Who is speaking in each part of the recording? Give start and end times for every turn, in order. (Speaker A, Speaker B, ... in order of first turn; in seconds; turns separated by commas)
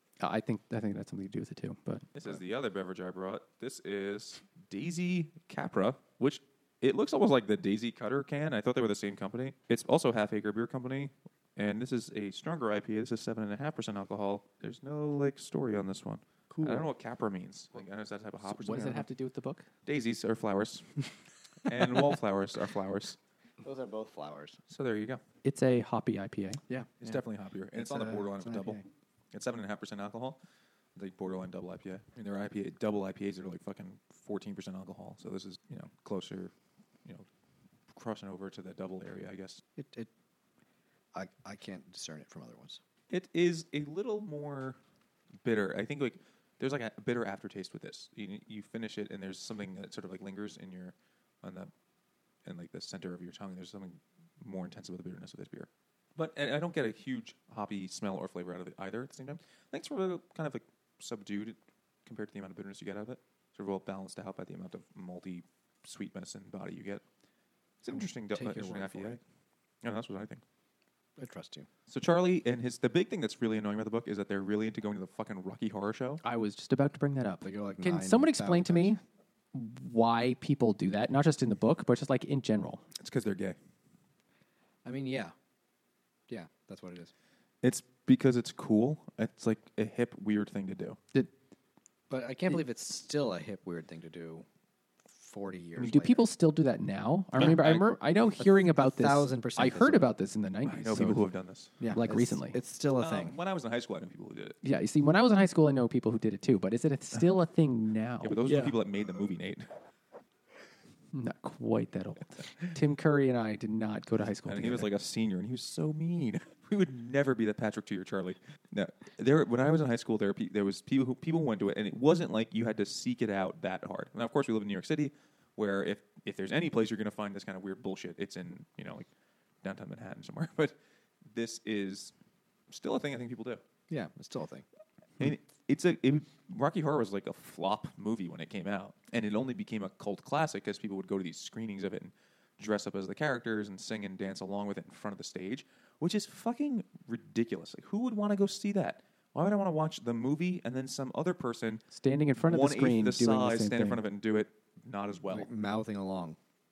Speaker A: 0.2-2.1, Speaker B: 2.1-19.1, Speaker C: 16.5-16.9, Speaker A: 18.4-19.7, Speaker B: 19.9-21.1, Speaker B: 21.6-23.2, Speaker C: 23.6-24.6, Speaker B: 24.7-25.2, Speaker A: 25.4-26.6, Speaker C: 26.7-27.2, Speaker B: 27.0-28.8, Speaker C: 27.7-28.8, Speaker B: 29.3-30.4, Speaker B: 31.0-36.5, Speaker B: 37.9-39.6, Speaker C: 39.8-40.1, Speaker C: 41.1-42.8, Speaker B: 43.1-44.8, Speaker B: 45.4-51.7, Speaker B: 52.5-67.0, Speaker B: 67.8-69.2, Speaker C: 67.9-69.2, Speaker B: 69.8-70.4, Speaker C: 71.2-71.7, Speaker B: 71.9-76.2, Speaker A: 76.2-79.0, Speaker C: 77.4-79.0, Speaker A: 79.5-82.8, Speaker B: 83.0-83.6, Speaker C: 84.8-85.3, Speaker C: 86.3-87.1, Speaker B: 87.6-91.0, Speaker C: 92.1-94.5, Speaker C: 95.1-96.2, Speaker A: 95.8-101.2, Speaker B: 97.4-97.8, Speaker C: 98.6-100.1, Speaker B: 100.7-101.8, Speaker C: 101.8-103.4, Speaker A: 101.9-102.6, Speaker B: 103.0-104.6, Speaker A: 104.6-108.7, Speaker B: 108.2-109.7, Speaker A: 111.1-114.9, Speaker B: 114.5-129.1, Speaker B: 129.6-130.8, Speaker B: 131.3-132.1, Speaker B: 132.7-133.6, Speaker C: 133.9-134.7, Speaker B: 135.2-151.8, Speaker A: 151.9-154.0, Speaker B: 152.4-155.5, Speaker C: 155.3-156.4